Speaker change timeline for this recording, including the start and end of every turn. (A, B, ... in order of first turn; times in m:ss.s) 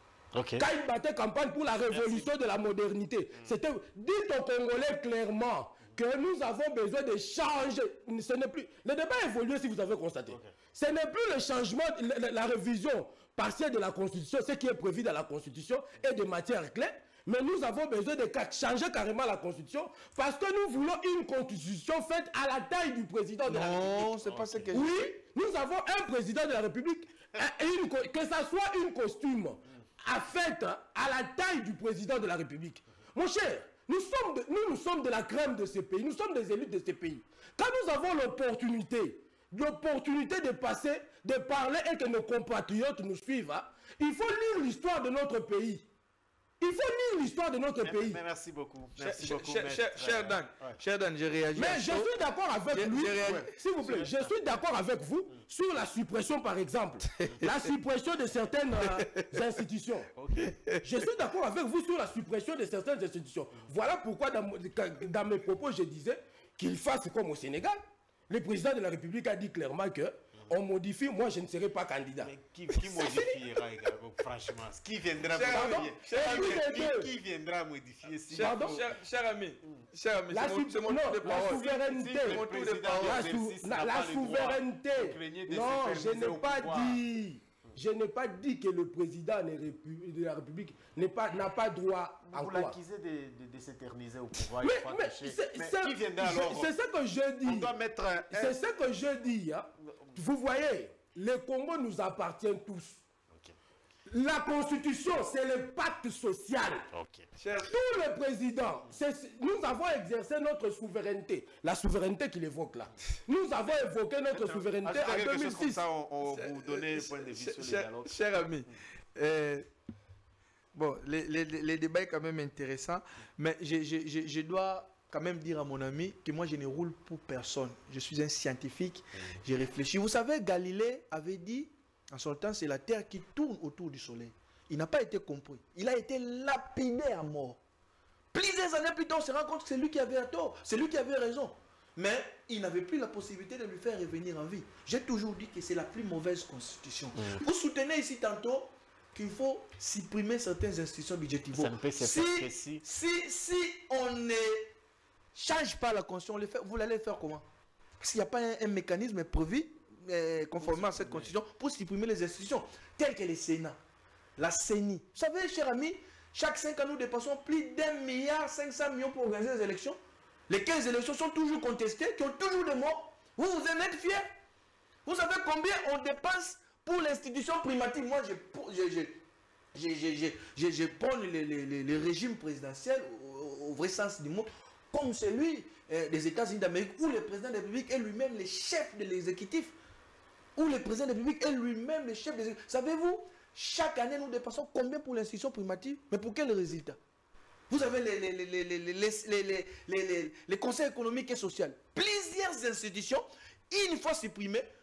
0:00.3-0:00.7 A
0:00.6-0:24.1 B
0:01.9-0:02.3 A
0:10.3-0:10.6 A
0:23.5-0:25.1 C
0:24.2-0:24.8 A
0:24.7-0:45.9 B
0:46.6-0:48.2 B
0:47.8-0:50.8 A
0:49.0-0:52.1 C
0:51.6-1:00.1 B
0:52.7-0:53.5 C
0:53.2-0:54.5 A
0:57.2-0:57.5 C
0:58.8-0:59.3 C
1:00.2-1:00.6 A
1:00.4-1:01.0 C
1:00.8-1:13.4 B
1:12.2-1:18.9 A
1:15.3-1:16.8 C
1:15.4-1:17.1 B
1:18.3-1:23.3 C
1:18.3-1:18.8 B
1:20.3-1:32.8 B
1:21.2-1:27.0 A
1:32.3-1:36.7 A
1:34.6-1:37.7 B
1:37.4-1:38.6 A
1:38.3-1:43.0 B
1:39.8-1:40.2 A
1:44.1-1:46.9 B
1:46.9-1:47.3 A
1:47.4-1:47.7 C
1:47.6-1:55.8 B
1:54.4-1:58.6 A
1:56.2-1:59.7 C
2:00.7-2:17.6 C
2:18.3-2:34.7 C
2:27.2-2:27.4 A
2:31.5-2:32.8 A
2:35.4-2:37.5 C
2:38.0-2:43.8 C
2:40.6-2:41.3 A
2:44.4-2:50.0 C
2:50.5-2:54.3 C
2:55.0-2:59.2 C
2:59.7-3:09.8 C
3:10.6-3:17.0 C
3:17.7-3:24.7 C